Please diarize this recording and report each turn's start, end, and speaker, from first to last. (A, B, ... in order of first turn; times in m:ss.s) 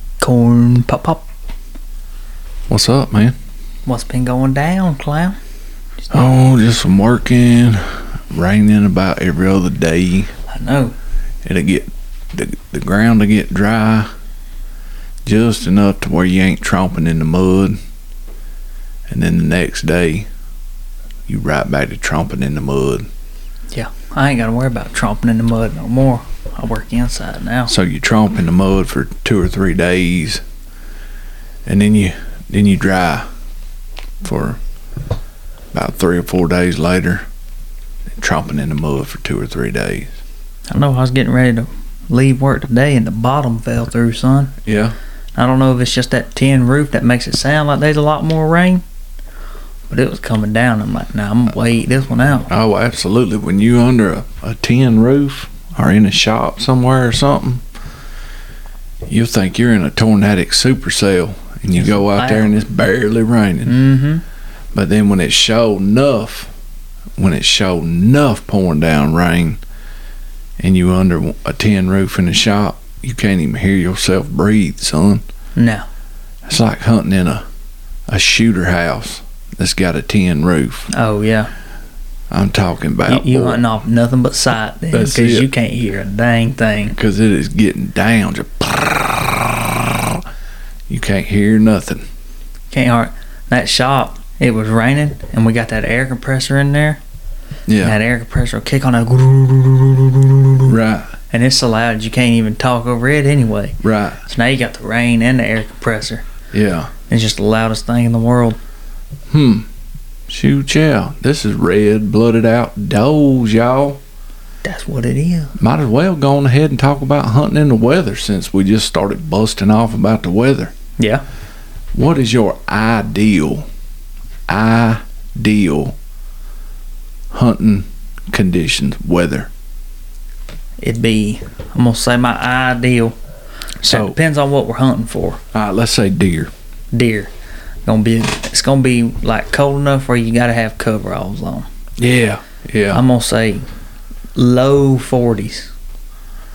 0:00.2-0:01.2 A
0:02.7-0:03.3 B
0:03.8-0:05.4 A
0:06.1-0:10.3 B
0:10.5-0:10.9 A
0:11.4-0:14.1 B
0:15.2-0:17.8 B
0:19.1-0:20.3 B
0:21.3-0:23.1 B
0:23.7-0:27.7 A
0:27.7-0:30.4 B
0:31.6-0:33.3 B
0:34.2-0:34.6 B
0:35.7-0:37.2 B
0:38.2-0:40.2 B
0:40.7-0:44.5 A
0:44.6-0:45.0 B
0:45.4-0:48.8 A
0:49.9-0:52.5 A
0:52.5-0:57.6 B
0:59.1-1:03.8 B
1:01.7-1:02.5 A
1:03.6-1:04.2 A
1:04.7-1:06.5 B
1:07.2-1:09.6 B
1:10.6-1:15.2 B
1:15.6-1:15.9 A
1:16.5-1:17.4 B
1:18.1-1:20.9 B
1:20.9-1:21.5 A
1:22.3-1:23.6 B
1:23.1-1:27.0 A
1:24.9-1:25.5 B
1:26.9-1:30.2 B
1:30.9-1:32.0 B
1:32.7-1:37.0 A
1:37.7-1:38.0 B
1:37.8-1:40.7 A
1:40.6-1:41.2 B
1:41.3-1:46.2 A
1:43.8-1:44.2 B
1:46.5-1:46.9 B
1:47.1-1:48.6 A
1:49.3-1:49.7 B
1:50.3-1:54.0 B
1:54.6-1:55.5 A
1:55.6-2:00.7 B
2:01.0-2:01.2 A
2:01.9-2:03.6 B
2:04.5-2:06.0 B
2:07.3-2:09.5 B
2:10.8-2:13.2 A
2:13.8-2:15.4 A
2:13.8-2:14.2 B
2:15.5-2:16.5 B
2:16.9-2:17.3 A
2:17.8-2:21.7 A
2:22.0-2:23.0 B
2:22.9-2:23.6 A
2:24.3-2:25.7 A